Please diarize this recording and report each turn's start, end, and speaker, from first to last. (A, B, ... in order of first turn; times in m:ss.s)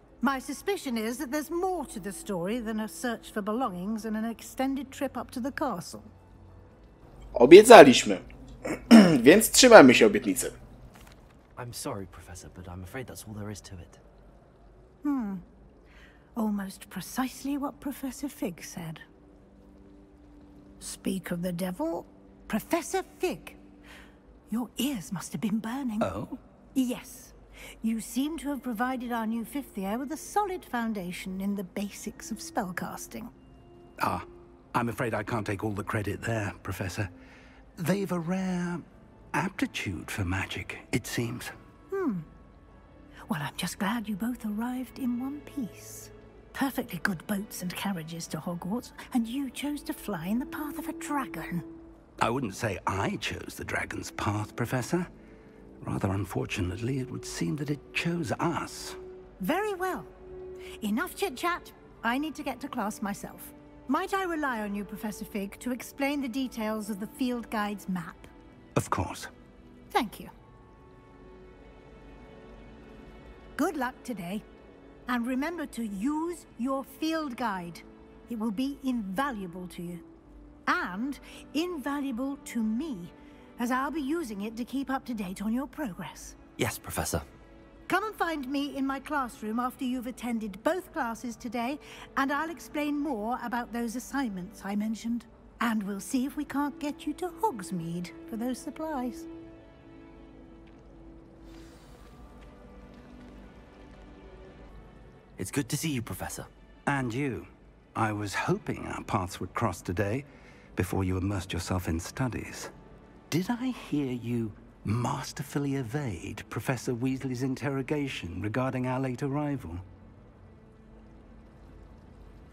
0:00.2-0:06.1 A
0:07.4-0:10.6 B
0:11.6-0:14.0 C
0:15.0-0:15.4 A
0:16.4-0:19.0 A
0:20.8-0:23.6 A
0:24.5-0:26.1 A
0:26.0-0:26.4 D
0:26.8-0:33.3 A
0:34.0-0:37.1 D
0:37.8-0:41.5 D
0:41.9-0:42.3 A
0:43.3-0:51.7 A
0:52.2-0:55.1 D
0:55.8-0:59.0 D
0:59.4-1:00.1 A
1:00.8-1:08.3 A
1:08.8-1:09.3 D
1:09.9-1:10.3 A
1:13.6-1:14.4 A
1:15.1-1:20.0 A
1:20.7-1:26.4 A
1:26.6-1:27.2 C
1:27.9-1:39.3 A
1:45.4-1:46.5 C
1:46.9-1:52.7 D
1:53.3-1:59.8 D